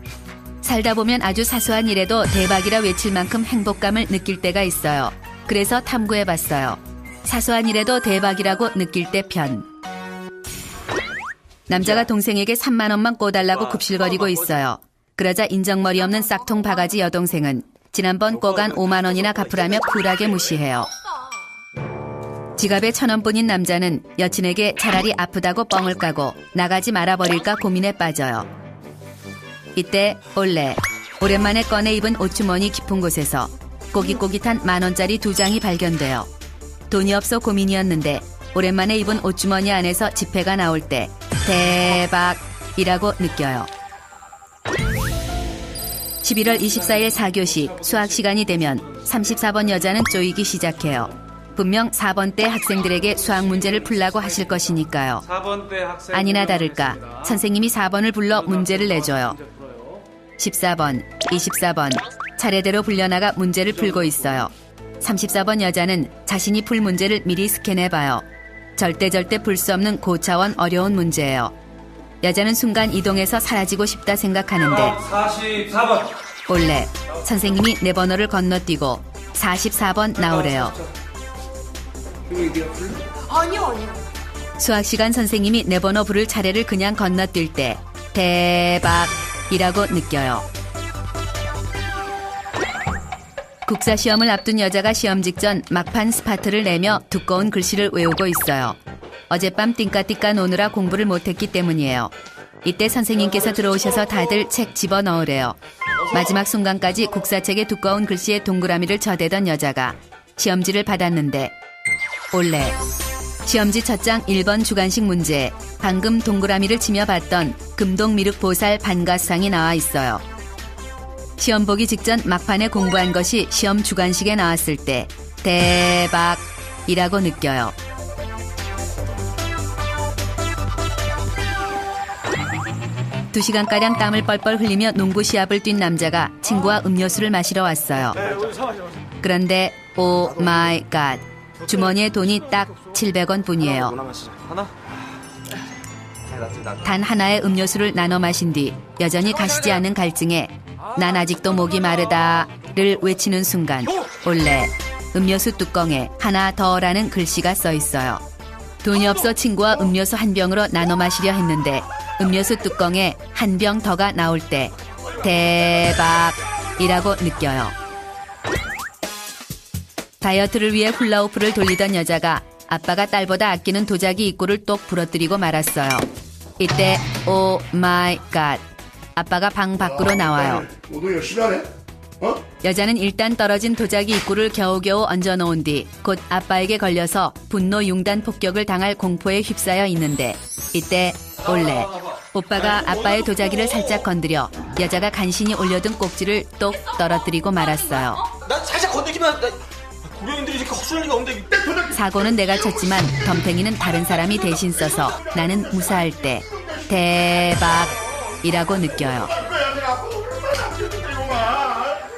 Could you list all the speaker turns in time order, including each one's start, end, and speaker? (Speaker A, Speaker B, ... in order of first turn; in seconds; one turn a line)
Speaker A: 0.6-9.7
Speaker A: 11.7-20.9
Speaker B: 13.8-14.3
Speaker B: 18.4-20.1
Speaker A: 22.6-28.5
Speaker A: 29.7-36.3
Speaker A: 36.9-43.7
Speaker A: 46.2-55.3
Speaker C: 46.7-49.7
Speaker C: 53.2-57.4
Speaker A: 56.1-59.4
Speaker C: 58.3-60.0
Speaker A: 60.4-68.2
Speaker A: 68.8-71.5
Speaker A: 72.2-75.0
Speaker C: 74.8-76.1
Speaker A: 76.5-80.8
Speaker C: 82.3-83.0
Speaker A: 84.6-90.5
Speaker A: 93.6-102.1
Speaker A: 102.6-105.6
Speaker A: 106.1-111.5
Speaker A: 112.3-112.8
Speaker A: 113.4-120.2
Speaker A: 121.4-127.7
Speaker A: 133.3-138.3
Speaker B: 138.2-138.8
Speaker C: 138.2-138.7
Speaker A: 139.2-144.0
Speaker B: 143.8-144.8
Speaker B: 146.2-146.8
Speaker A: 146.8-158.2
Speaker A: 158.8-167.7
Speaker A: 170.2-176.1
Speaker A: 176.6-178.6
Speaker A: 179.2-180.8
Speaker D: 180.7-181.7
Speaker A: 182.6-198.3
Speaker B: 192.7-194.0
Speaker B: 198.3-201.9
Speaker A: 201.9-209.4
Speaker D: 209.5-211.9